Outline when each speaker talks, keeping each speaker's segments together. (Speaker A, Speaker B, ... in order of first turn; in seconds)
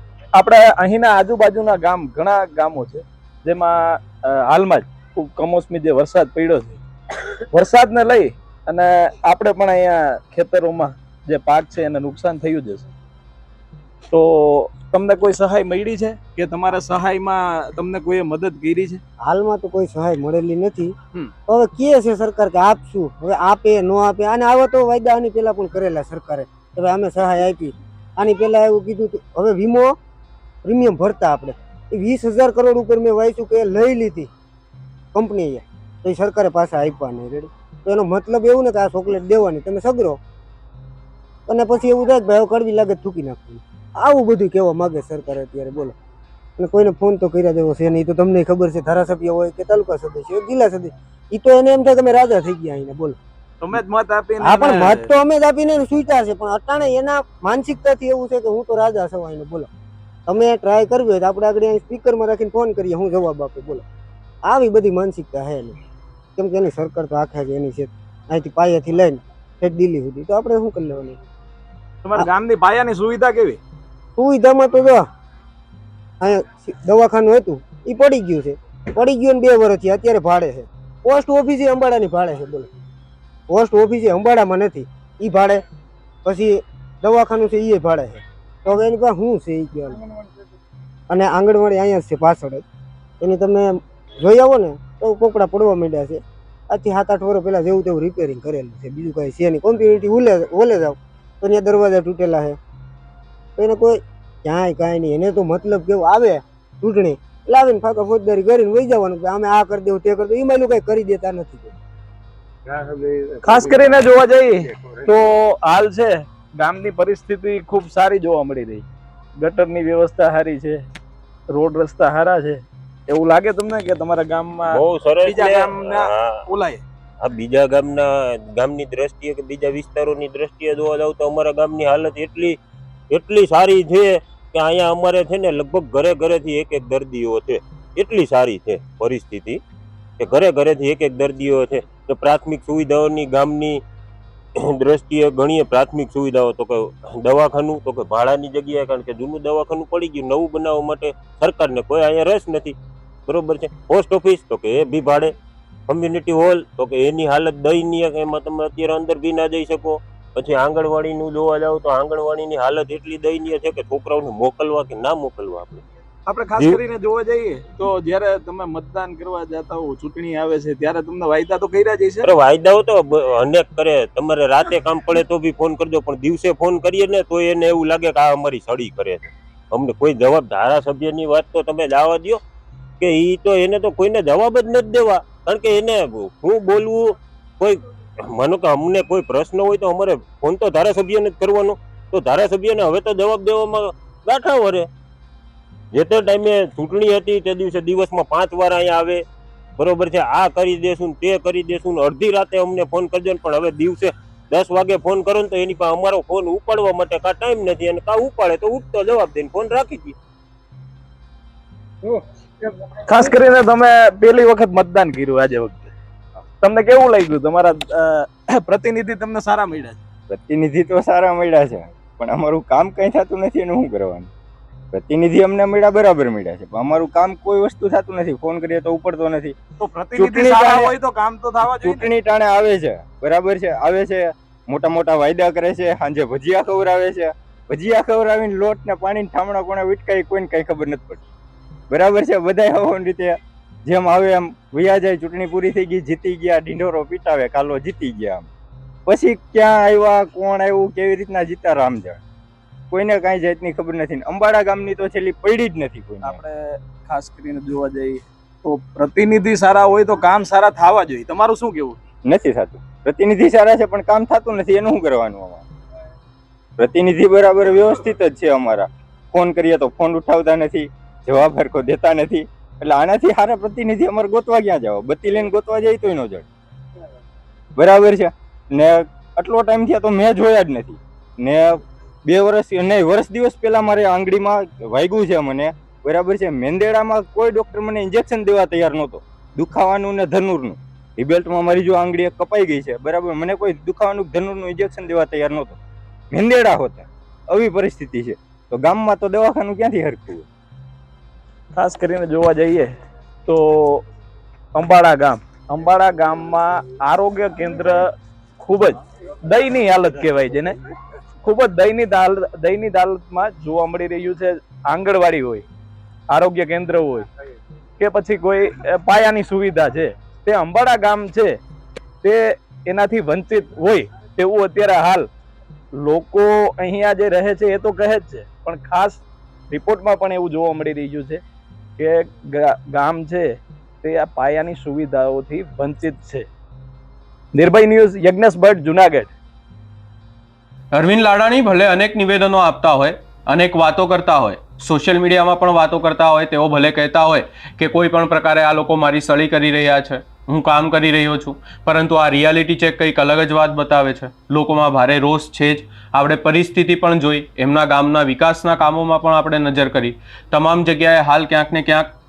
Speaker A: 0.3-6.8, 7.5-12.9, 14.1-19.0, 53.6-55.1, 72.0-73.6, 113.4-120.8, 121.5-126.8, 166.3-172.3, 213.1-215.9, 216.6-220.0, 229.8-232.1, 256.2-262.0, 301.7-302.9, 303.5-304.1, 304.8-310.8, 311.4-315.6, 316.3-317.3, 318.0-321.6, 322.2-325.3, 326.0-331.4, 332.0-336.5, 337.5-339.3
Speaker B: 19.2-20.9, 21.5-30.0, 30.6-34.3, 35.1-40.2, 41.5-46.0, 46.6-53.2, 54.4-59.7, 60.3-63.8, 64.5-65.8, 66.4-71.2, 74.2-75.1, 76.2-82.7, 83.5-85.6, 86.2-90.0, 91.1-92.6, 93.2-102.6, 103.6-111.8
Speaker C: 124.7-126.4, 127.2-132.6, 133.1-139.6, 140.2-143.8, 144.7-152.8, 153.3-155.3, 155.9-165.8, 172.2-182.4, 183.0-194.9, 195.9-199.2, 199.8-210.2
Speaker D: 220.3-224.3, 224.9-229.6, 230.2-230.9, 231.6-241.2, 241.9-248.5, 249.1-252.2, 252.9-256.4, 262.2-265.6, 266.8-276.5, 277.8-295.8, 296.3-300.5
Speaker E: 340.9-362.1